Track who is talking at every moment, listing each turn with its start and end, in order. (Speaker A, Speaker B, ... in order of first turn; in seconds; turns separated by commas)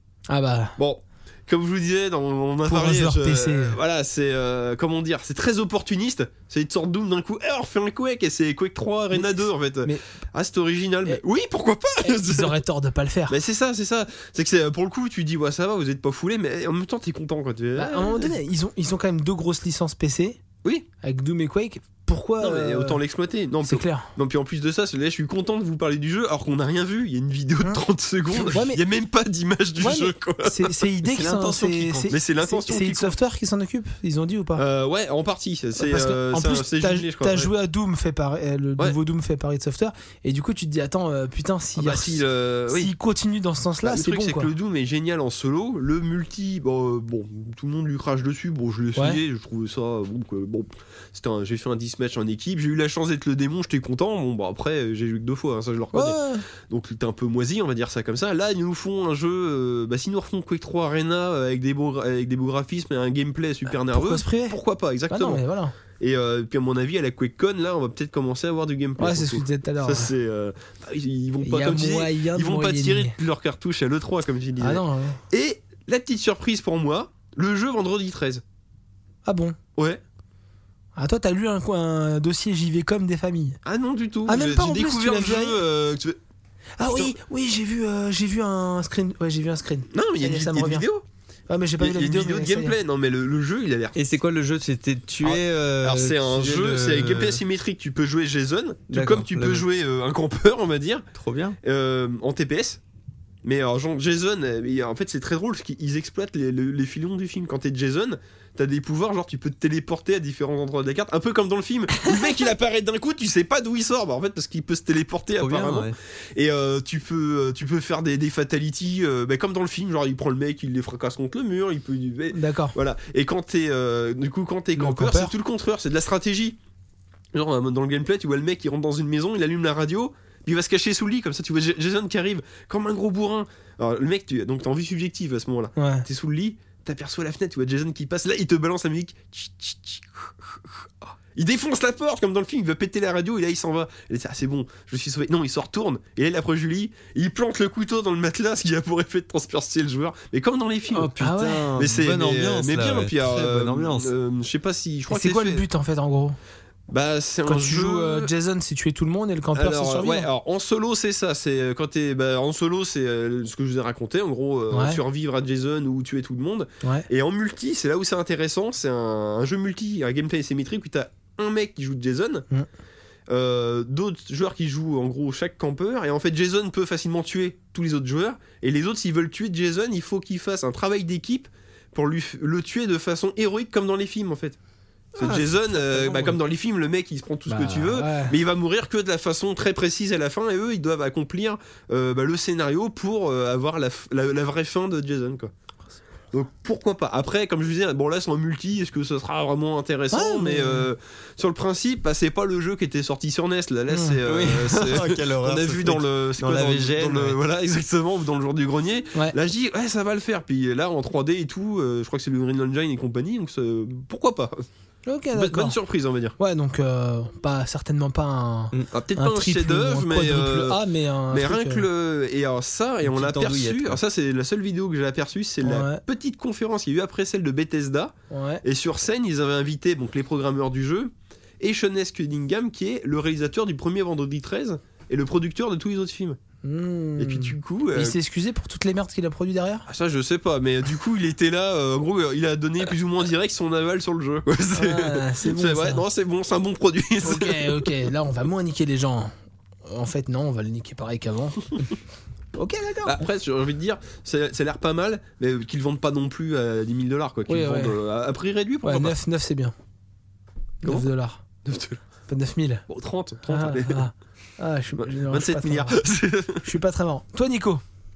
Speaker A: 0.3-0.8, Speaker B: 0.8-12.6, Speaker A: 2.6-3.8, Speaker A: 9.1-10.0, Speaker A: 12.0-13.3, Speaker B: 13.3-18.4, Speaker A: 17.8-20.4, Speaker A: 21.0-23.0, Speaker B: 22.4-30.9, Speaker A: 23.6-24.1, Speaker A: 28.4-28.8, Speaker A: 29.8-34.6, Speaker C: 31.1-32.1, Speaker B: 32.1-33.2, Speaker B: 34.5-37.5, Speaker A: 35.8-44.5, Speaker B: 41.8-42.9, Speaker B: 43.8-78.4, Speaker A: 49.0-49.2, Speaker A: 55.9-56.4, Speaker A: 63.9-64.6, Speaker A: 65.1-65.7, Speaker A: 69.0-70.1, Speaker A: 71.4-73.1, Speaker A: 74.6-75.2, Speaker A: 79.2-79.5, Speaker A: 80.9-83.6, Speaker B: 83.6-86.2, Speaker A: 84.2-85.6, Speaker A: 86.8-90.9, Speaker B: 86.8-87.1, Speaker B: 89.9-91.0, Speaker A: 91.5-92.8, Speaker B: 91.8-94.0, Speaker C: 93.9-97.4, Speaker B: 95.2-101.0, Speaker C: 98.9-99.7, Speaker C: 101.1-101.6, Speaker B: 101.6-102.8, Speaker B: 103.4-126.6, Speaker C: 115.4-115.9, Speaker A: 122.3-122.7, Speaker A: 124.8-125.3, Speaker B: 127.3-151.1, Speaker A: 135.8-136.1, Speaker C: 150.9-154.1, Speaker A: 151.2-151.7, Speaker B: 151.8-155.7, Speaker A: 155.1-156.4, Speaker B: 156.9-158.3, Speaker A: 157.4-160.3, Speaker B: 159.5-172.5, Speaker A: 164.7-165.0, Speaker B: 173.3-184.6, Speaker B: 185.2-195.5, Speaker C: 185.2-186.4, Speaker A: 187.5-188.4, Speaker B: 196.3-214.7, Speaker A: 200.1-200.9, Speaker A: 203.9-204.2, Speaker C: 204.2-207.4, Speaker A: 215.1-215.8, Speaker B: 215.3-216.3, Speaker A: 216.4-221.8, Speaker B: 218.9-236.4, Speaker C: 223.0-224.0, Speaker A: 225.6-226.0, Speaker A: 228.3-228.6, Speaker A: 236.6-239.8, Speaker B: 237.2-238.2, Speaker B: 239.9-247.9, Speaker A: 244.7-246.0, Speaker A: 247.2-249.3, Speaker A: 249.8-251.7, Speaker A: 252.5-253.2, Speaker B: 253.0-259.1, Speaker A: 257.5-258.0, Speaker A: 258.8-259.7, Speaker A: 260.8-261.4, Speaker B: 261.6-262.0, Speaker A: 262.3-262.8, Speaker B: 262.9-264.1, Speaker A: 263.5-266.0, Speaker B: 265.0-266.6, Speaker A: 266.6-267.8